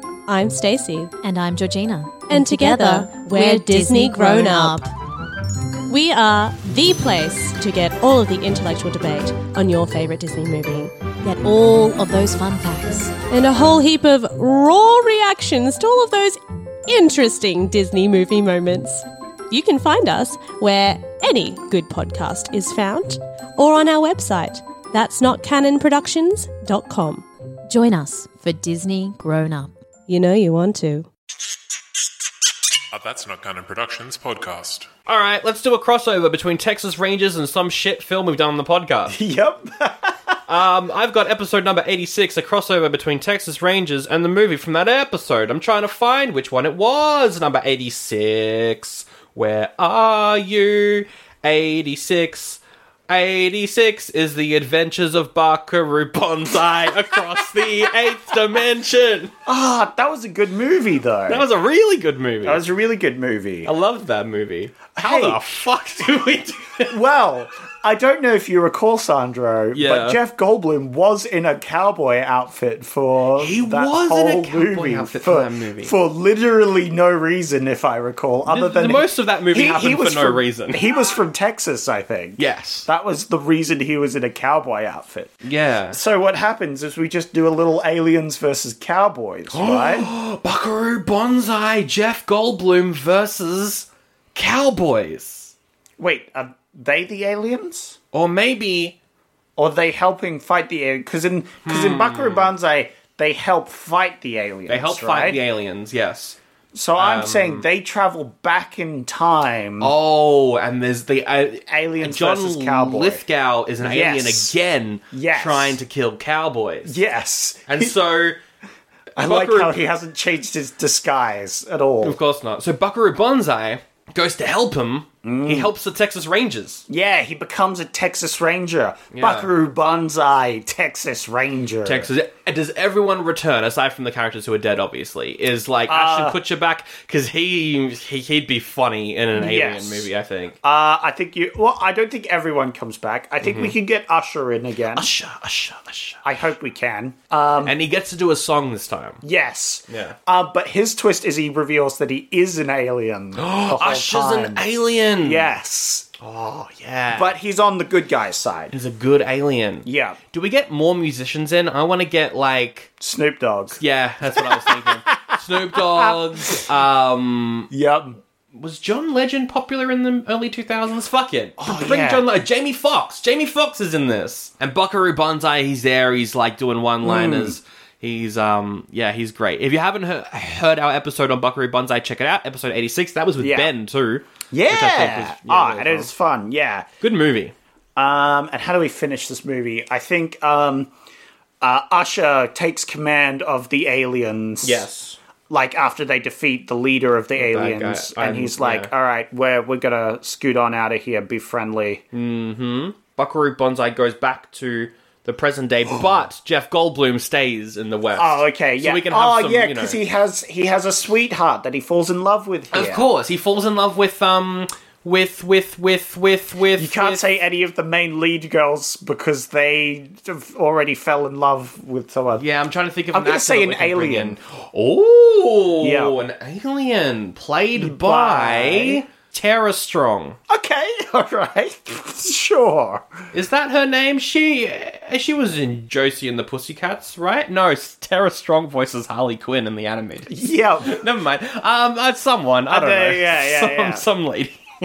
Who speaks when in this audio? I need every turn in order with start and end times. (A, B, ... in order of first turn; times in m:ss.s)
0:00.3-0:01.1 A
0:01.2-0:04.8 B
0:02.2-0:04.9 A
0:05.9-0:10.9 A
0:11.2-0:13.1 B
0:13.3-0:27.2 A
0:27.7-0:29.7 B
0:30.1-0:31.1 A
0:32.9-0:34.9 C
0:35.1-0:39.1 D
0:39.1-0:40.2 E
0:40.5-0:59.3 D
0:59.4-1:01.4 E
1:01.3-1:02.6 D
1:02.4-1:03.7 E
1:03.6-1:06.9 D
1:04.9-1:05.4 E
1:06.9-1:30.1 E
1:09.7-1:10.2 D
1:13.4-1:15.9 D
1:18.4-1:20.8 D
1:22.4-1:22.9 D
1:25.4-1:26.0 D
1:29.5-1:35.5 D
1:36.0-1:38.0 E
1:38.1-1:39.0 D
1:39.6-1:45.4 E
1:41.6-1:42.5 D
1:44.7-1:46.4 D
1:46.7-1:49.9 E
1:47.0-1:47.6 D
1:49.8-1:57.0 D
1:51.7-1:53.2 E
1:53.8-1:54.5 E
1:55.1-1:55.8 E
1:56.8-1:57.9 E
1:57.7-1:58.4 D
1:59.2-1:59.8 D
1:59.2-2:02.2 E
2:02.0-2:06.8 D
2:05.2-2:05.7 E
2:06.9-2:12.1 E
2:09.1-2:09.5 D
2:11.8-2:20.6 D
2:15.9-2:16.4 E
2:19.3-2:20.1 E
2:20.6-2:25.1 E
2:23.4-2:23.7 D
2:24.9-2:26.2 D
2:26.2-2:27.8 E
2:27.6-2:29.2 D
2:29.2-2:34.6 E
2:29.9-2:30.2 D
2:33.4-2:35.5 D
2:35.2-2:36.1 E
2:36.2-2:37.3 D
2:37.1-2:38.7 E
2:38.7-2:42.9 D
2:39.8-2:40.2 E
2:43.0-2:43.8 E
2:43.8-2:47.7 D
2:44.4-2:46.6 E
2:47.7-2:48.2 E
2:48.5-3:06.1 D
2:51.6-2:52.2 E
2:57.0-2:57.6 E
3:03.4-3:03.7 E
3:04.5-3:06.9 E
3:07.0-3:07.5 D
3:08.0-3:10.9 E
3:11.6-3:14.8 E
3:14.6-3:15.2 D
3:15.5-3:22.0 E
3:17.4-3:18.9 D
3:22.1-3:30.0 D
3:28.2-3:33.0 E
3:32.7-3:37.2 D
3:36.8-3:42.4 E
3:42.4-3:50.4 D
3:43.1-3:44.4 E
3:45.8-3:46.1 E
3:47.8-3:49.0 E
3:50.5-3:53.1 E
3:53.3-4:00.3 D
4:00.3-4:01.0 E
4:00.8-4:04.6 D
4:02.7-4:04.0 E